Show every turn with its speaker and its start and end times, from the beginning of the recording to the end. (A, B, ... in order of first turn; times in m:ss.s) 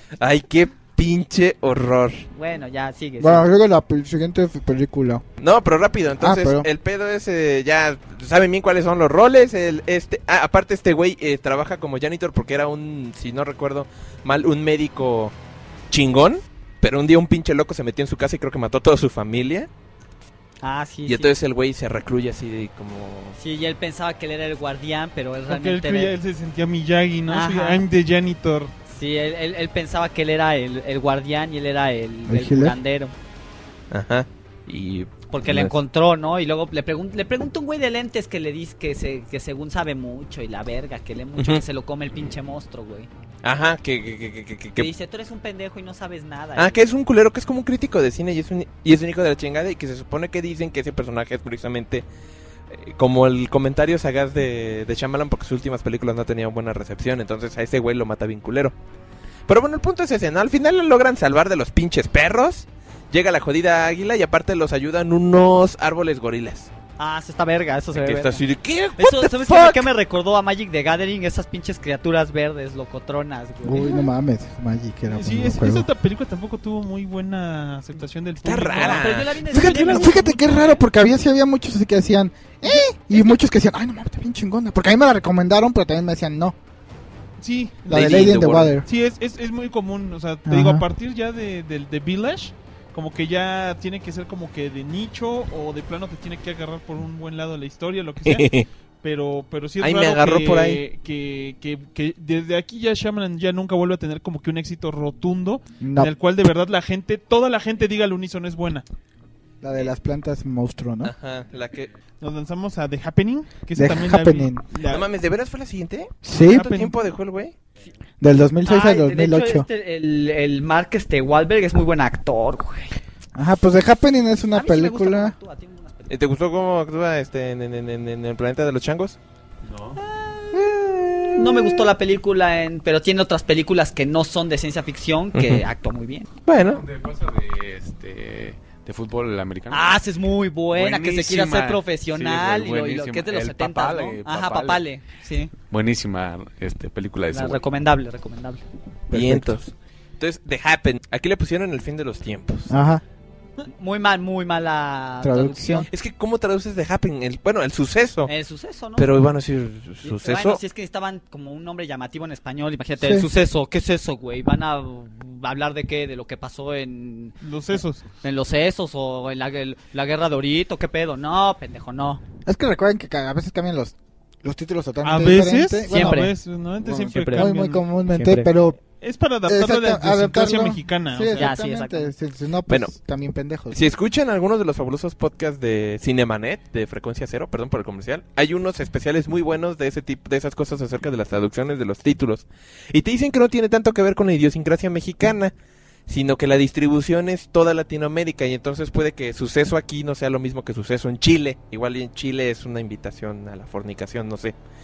0:00.2-0:02.3 A
0:02.3-0:03.4 B
0:03.2-0:05.2 C
0:05.4-0:15.3 A
0:06.2-0:06.7 C
0:15.9-0:19.7 A
0:20.6-0:21.3 B
0:21.1-0:23.4 A
0:23.4-0:26.1 B
0:25.5-0:28.7 D
0:27.3-0:27.8 B
0:28.9-0:33.1 B
0:32.3-0:32.8 C
0:33.9-0:35.7 A
0:35.3-0:43.1 B
0:43.4-0:44.9 A
0:44.8-0:46.8 B
0:46.6-0:52.0 A
0:52.7-0:58.7 A
0:59.5-1:06.7 A
1:07.0-1:08.4 B
1:07.9-1:09.9 A
1:09.0-1:14.1 B
1:13.6-1:15.9 C
1:15.1-1:19.2 D
1:18.4-1:20.0 A
1:18.8-1:20.8 B
1:19.5-1:26.6 C
1:27.4-1:38.4 D
1:27.9-1:28.8 C
1:27.9-1:28.7 A
1:30.5-1:30.8 C
1:38.2-1:38.7 A
1:39.0-1:48.8 D
1:39.8-1:40.8 A
1:45.8-1:46.1 C
1:49.6-1:51.1 C
1:51.0-1:51.9 A
1:52.2-1:55.0 D
1:53.7-1:54.6 C
1:54.9-1:57.5 A
1:56.2-1:56.7 C
1:56.4-1:57.0 D
1:58.2-1:59.7 C
1:58.6-2:02.9 B
2:03.3-2:05.3 C
2:04.5-2:06.2 B
2:06.1-2:09.2 A
2:09.6-2:10.0 E
2:10.0-2:10.7 B
2:10.5-2:11.9 A
2:11.3-2:16.3 B
2:15.3-2:15.6 A
2:16.4-2:16.8 A
2:16.6-2:19.9 E
2:19.7-2:25.5 B
2:20.7-2:24.8 E
2:25.7-2:27.6 E
2:27.3-2:28.6 B
2:29.1-2:29.5 C
2:29.1-2:32.7 A
2:32.7-2:33.0 C
2:33.6-2:35.9 B
2:35.2-2:35.9 C
2:35.9-2:38.3 A
2:38.3-2:39.2 B
2:39.0-2:40.6 A
2:40.0-2:47.4 B
2:43.0-2:43.3 C
2:47.4-2:48.0 D
2:48.2-2:52.2 B
2:52.4-2:56.3 C
2:55.0-2:57.8 D
2:55.9-2:56.3 B
2:56.8-2:57.5 B
2:57.3-2:58.8 C
2:58.1-2:58.5 B
2:59.0-3:01.5 D
2:59.4-3:03.8 C
3:01.3-3:02.1 B
3:02.7-3:02.9 A
3:03.7-3:15.5 A
3:16.1-3:24.5 A